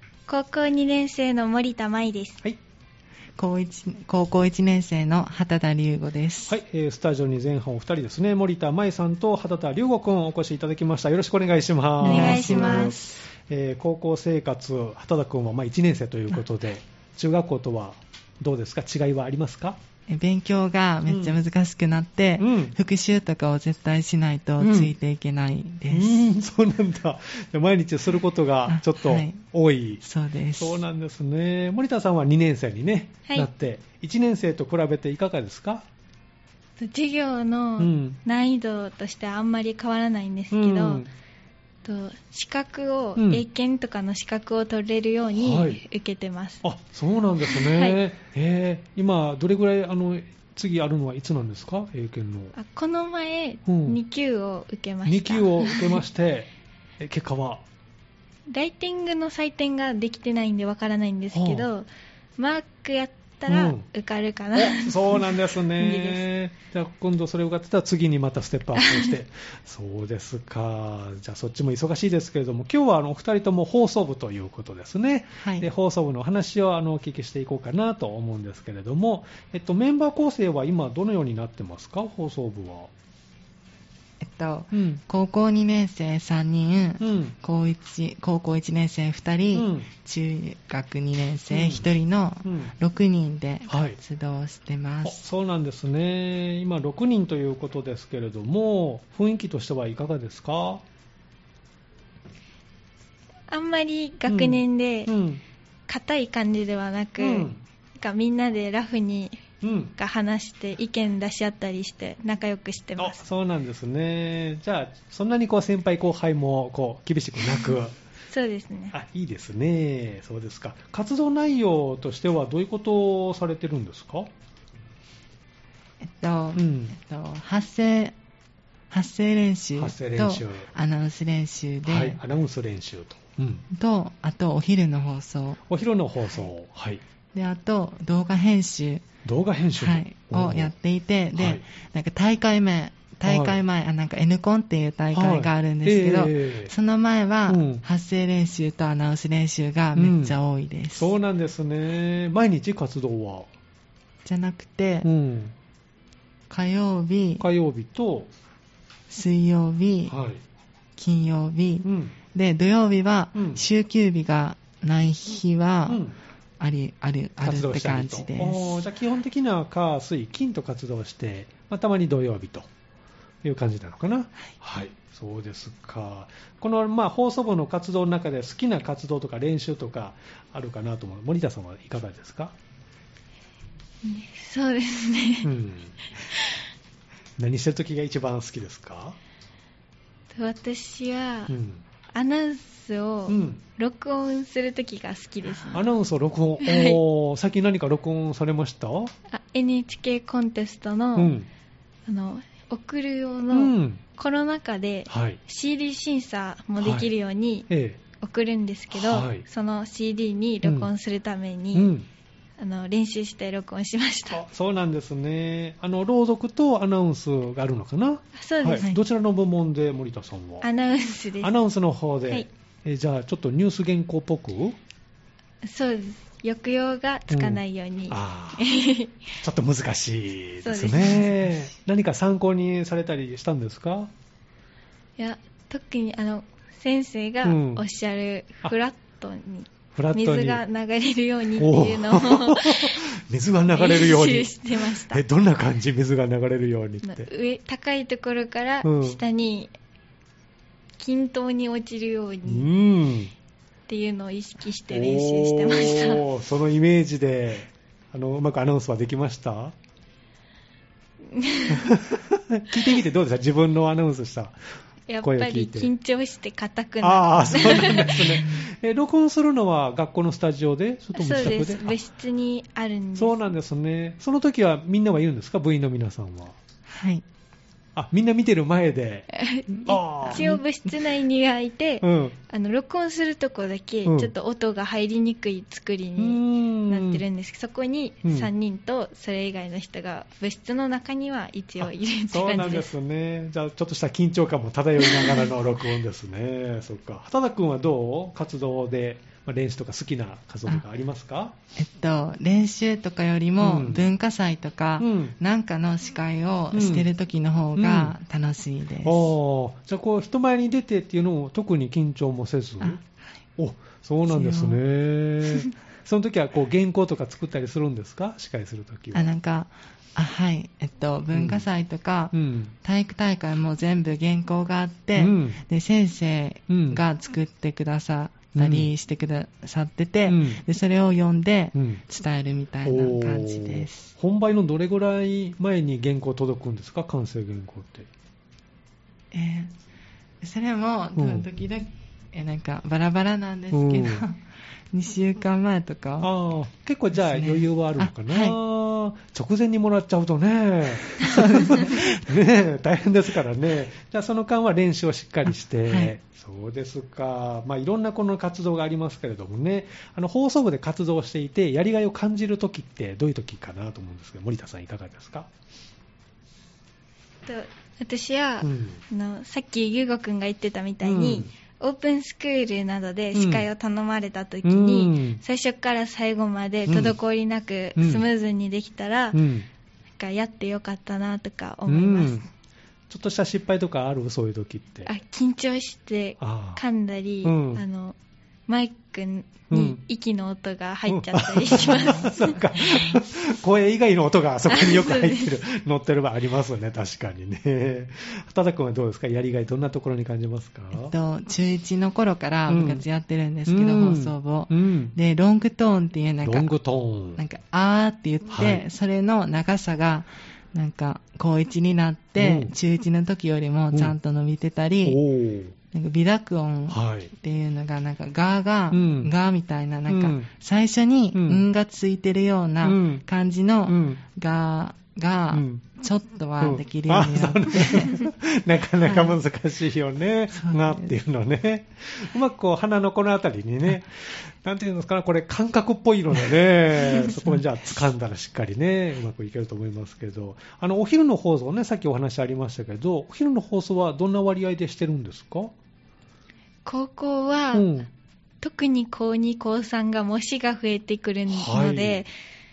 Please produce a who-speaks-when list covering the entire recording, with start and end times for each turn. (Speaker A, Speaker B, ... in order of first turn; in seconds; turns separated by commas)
Speaker A: 0.3-2.4, Speaker B: 3.4-6.6, Speaker C: 6.5-19.8, Speaker B: 12.0-13.3, Speaker A: 12.0-13.0, Speaker B: 20.1-26.2, Speaker C: 21.1-21.4, Speaker C: 22.4-22.8, Speaker C: 24.6-24.9, Speaker C: 25.9-30.0, Speaker B: 28.7-29.4, Speaker B: 30.0-30.8, Speaker C: 30.6-35.9, Speaker A: 33.2-33.5, Speaker A: 36.8-41.0, Speaker C: 37.8-38.2, Speaker C: 40.5-41.1, Speaker A: 41.8-46.6, Speaker C: 43.2-43.5, Speaker C: 45.4-45.8, Speaker C: 46.6-52.5, Speaker A: 47.5-48.0, Speaker A: 52.5-56.0, Speaker C: 53.7-54.0, Speaker C: 55.0-57.6, Speaker A: 58.5-66.2, Speaker C: 61.3-61.7, Speaker C: 63.5-63.9, Speaker C: 64.5-82.9, Speaker A: 68.8-69.1, Speaker B: 75.4-75.7, Speaker B: 84.2-95.2, Speaker C: 84.7-85.0, Speaker C: 87.0-87.3, Speaker C: 89.5-89.9, Speaker C: 91.5-91.9, Speaker C: 92.5-92.8, Speaker C: 93.7-94.0, Speaker C: 95.0-100.8, Speaker A: 103.5-105.1, Speaker C: 104.3-105.4, Speaker A: 105.9-113.2, Speaker C: 107.2-107.6, Speaker C: 109.6-109.9, Speaker C: 113.0-118.0, Speaker A: 118.3-118.9, Speaker C: 118.9-124.3, Speaker B: 126.0-128.1, Speaker C: 126.5-127.0, Speaker B: 128.9-132.2, Speaker C: 129.8-130.7, Speaker C: 131.9-133.7, Speaker B: 133.7-135.6, Speaker C: 135.7-137.0, Speaker B: 137.3-139.1, Speaker C: 139.2-140.7, Speaker B: 139.8-151.1, Speaker C: 141.3-141.6, Speaker C: 143.2-143.6, Speaker C: 145.1-146.7, Speaker C: 147.5-147.8, Speaker C: 150.0-150.4, Speaker C: 150.9-153.5, Speaker B: 154.2-155.1, Speaker C: 155.0-155.5, Speaker B: 156.5-157.4, Speaker C: 157.4-158.3, Speaker B: 159.1-160.1, Speaker C: 160.1-160.4, Speaker B: 161.0-166.0, Speaker C: 161.8-162.2, Speaker C: 163.3-163.6, Speaker C: 165.9-166.2, Speaker B: 166.6-168.9, Speaker C: 167.4-172.7, Speaker C: 173.4-182.6, Speaker A: 184.0-185.5, Speaker C: 185.4-185.9, Speaker A: 186.3-186.7, Speaker C: 187.4-189.2, Speaker A: 190.3-191.5, Speaker C: 191.5-191.8, Speaker A: 192.1-195.9, Speaker C: 193.3-193.6, Speaker C: 195.7-199.1, Speaker A: 196.6-197.0, Speaker A: 199.3-201.3, Speaker C: 201.2-201.5, Speaker A: 202.1-211.9, Speaker C: 203.5-204.0, Speaker C: 205.1-205.4, Speaker C: 206.8-207.1, Speaker C: 207.7-208.0, Speaker C: 208.9-209.4, Speaker C: 210.6-210.9, Speaker C: 211.7-212.1, Speaker A: 212.6-214.4, Speaker C: 214.3-220.7, Speaker A: 218.3-218.9, Speaker A: 220.6-221.5, Speaker C: 221.4-224.8, Speaker A: 225.6-229.3, Speaker C: 227.3-228.7, Speaker C: 229.4-234.1, Speaker A: 230.6-231.3, Speaker A: 235.2-243.0, Speaker C: 237.4-237.8, Speaker C: 239.9-240.6, Speaker C: 241.6-247.3, Speaker A: 243.7-245.2, Speaker A: 247.0-249.7, Speaker C: 248.8-249.2, Speaker A: 251.0-252.7, Speaker C: 252.4-253.3, Speaker A: 253.9-256.2, Speaker C: 254.9-259.8, Speaker A: 261.3-262.0, Speaker C: 261.7-264.6, Speaker A: 265.1-268.4, Speaker C: 265.2-265.9, Speaker C: 267.0-272.0, Speaker B: 268.0-268.7, Speaker A: 271.1-273.4, Speaker C: 273.2-276.6, Speaker B: 276.9-277.2, Speaker C: 277.9-279.3, Speaker A: 279.3-292.9, Speaker B: 279.7-280.9, Speaker C: 279.9-280.5, Speaker C: 282.0-282.4, Speaker C: 284.1-284.3, Speaker C: 286.2-287.2, Speaker C: 288.2-288.5, Speaker C: 291.8-301.6, Speaker A: 295.1-295.4, Speaker B: 301.8-309.3, Speaker C: 303.6-304.1, Speaker C: 305.0-305.4, Speaker C: 306.7-307.1, Speaker C: 307.8-308.2, Speaker C: 309.0-313.0, Speaker C: 313.6-319.4, Speaker B: 314.3-314.8, Speaker B: 319.1-334.1, Speaker C: 321.3-321.7, Speaker C: 322.3-322.7, Speaker C: 325.2-325.6, Speaker C: 326.7-327.0, Speaker C: 328.6-328.9, Speaker C: 330.3-330.6, Speaker C: 331.8-332.0, Speaker C: 332.8-338.1, Speaker B: 339.3-339.7, Speaker B: 340.4-346.3, Speaker C: 341.2-341.5, Speaker C: 343.7-344.2, Speaker C: 346.2-365.5, Speaker B: 347.1-348.6, Speaker B: 351.2-352.3, Speaker B: 355.9-356.1, Speaker A: 367.4-379.4, Speaker C: 368.6-369.0, Speaker C: 371.0-371.5, Speaker C: 373.3-373.7, Speaker C: 374.6-375.4, Speaker C: 376.9-377.1, Speaker C: 378.0-378.2, Speaker C: 379.3-379.7, Speaker A: 380.2-382.4, Speaker C: 381.9-382.4, Speaker C: 383.1-385.1, Speaker A: 385.1-388.2, Speaker C: 386.4-386.8, Speaker C: 387.4-387.8, Speaker A: 388.7-392.5, Speaker C: 389.7-390.0, Speaker C: 391.1-401.1, Speaker B: 391.8-393.3, Speaker A: 394.7-395.5, Speaker B: 400.9-406.8, Speaker C: 402.7-403.0, Speaker C: 403.7-405.1, Speaker C: 406.4-407.4, Speaker B: 407.4-415.2, Speaker C: 408.5-408.9, Speaker C: 412.4-412.7, Speaker C: 415.1-415.8, Speaker B: 415.9-428.3, Speaker C: 416.9-417.3, Speaker C: 418.9-419.3, Speaker C: 420.1-420.5, Speaker C: 421.3-421.6, Speaker C: 422.8-423.2, Speaker C: 423.9-424.2, Speaker C: 425.5-425.8, Speaker C: 426.6-445.7, Speaker B: 429.0-429.4, Speaker B: 430.5-431.1, Speaker A: 446.9-447.9, Speaker C: 447.7-448.1, Speaker A: 448.6-452.3, Speaker C: 451.5-452.2